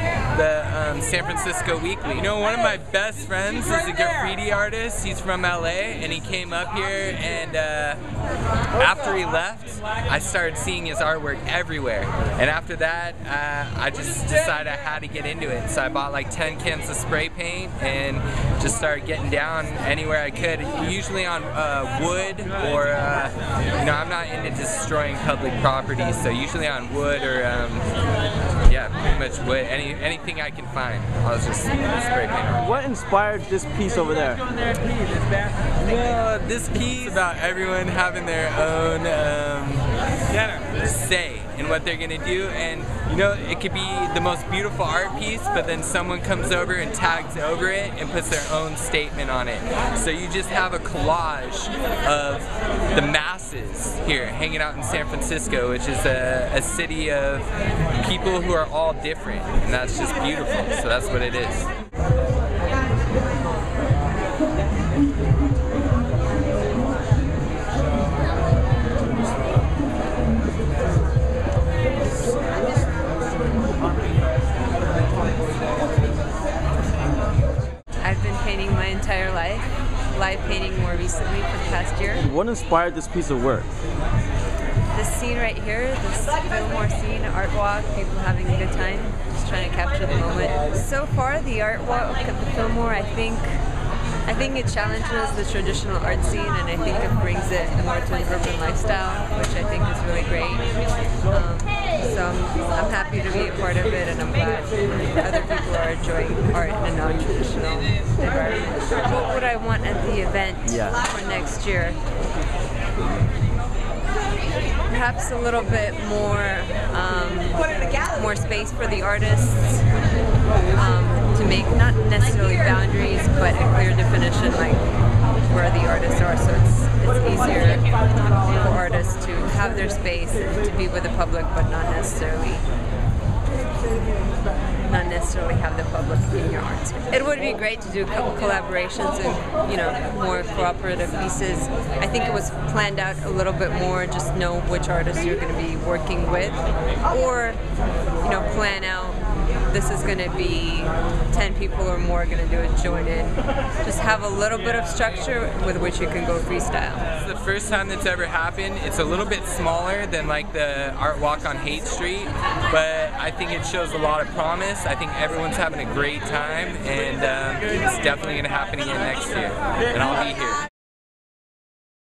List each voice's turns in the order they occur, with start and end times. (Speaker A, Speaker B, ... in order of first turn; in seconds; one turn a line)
Speaker A: 0.3-8.0
Speaker A: 8.8-27.9
Speaker A: 28.7-32.7
Speaker B: 32.6-34.4
Speaker A: 35.8-39.9
Speaker A: 40.6-61.7
Speaker C: 78.0-82.3
Speaker B: 82.2-83.7
Speaker C: 84.9-93.6
Speaker C: 94.2-100.7
Speaker C: 101.3-112.0
Speaker B: 110.7-111.0
Speaker C: 114.9-119.9
Speaker C: 120.7-124.8
Speaker C: 125.4-132.7
Speaker C: 134.8-147.6
Speaker C: 148.2-157.1
Speaker A: 157.2-170.6